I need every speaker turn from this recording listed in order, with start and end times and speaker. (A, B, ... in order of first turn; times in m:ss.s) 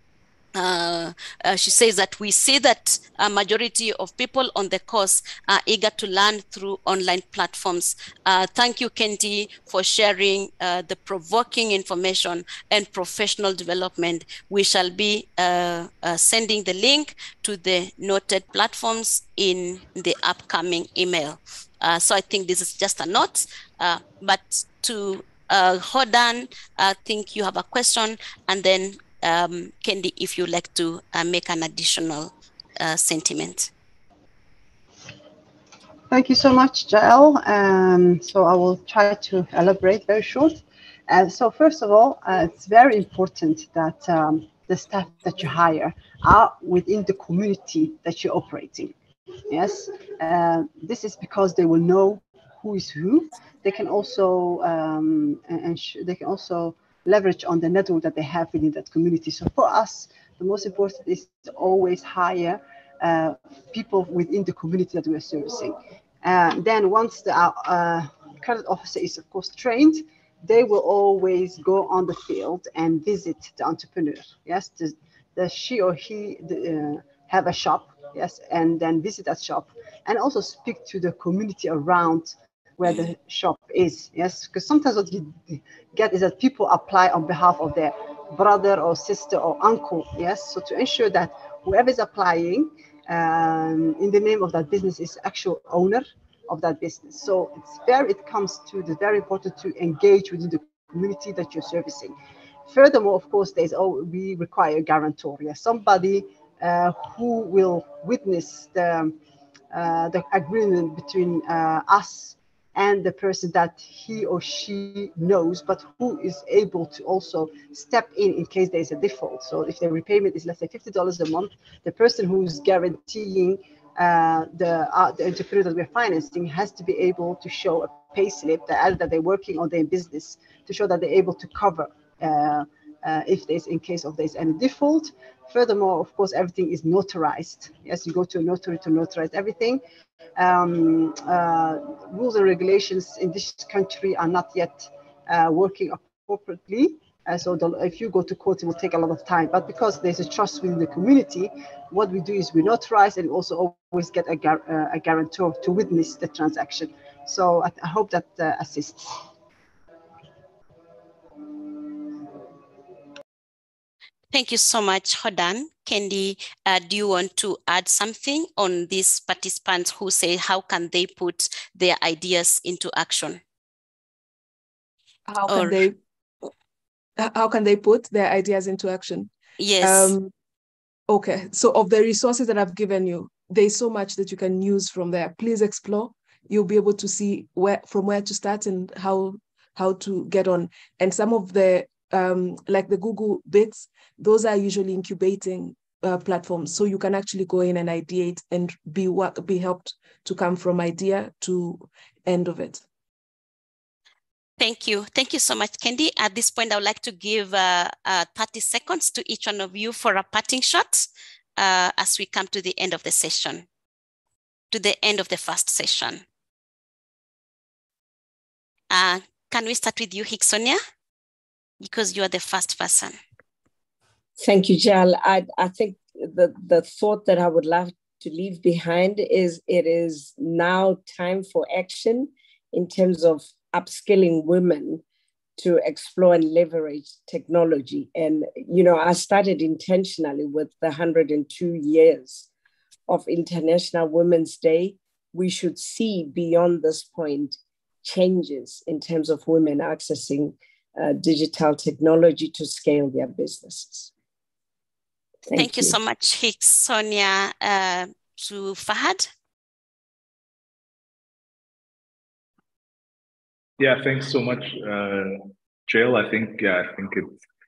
0:00.5-0:33.7 A
0:36.1-0:48.9 B
0:49.5-1:42.1 B
1:42.7-1:49.2 B
1:49.7-2:19.8 B
2:20.4-2:39.2 B
2:44.3-2:53.4 A
2:55.3-2:56.0 C
2:55.5-2:55.8 A
2:57.2-3:00.3 C
2:59.6-3:00.1 A
3:01.1-3:22.8 C
3:24.6-3:31.0 A
3:31.6-3:33.6 A
3:34.7-3:36.2 A
3:38.9-3:40.8 A
3:41.8-3:43.2 A
3:44.4-3:55.0 D
3:55.6-4:02.5 D
4:03.1-4:14.1 D
4:15.4-4:16.0 D
4:15.6-4:19.2 A
4:23.8-4:27.3 E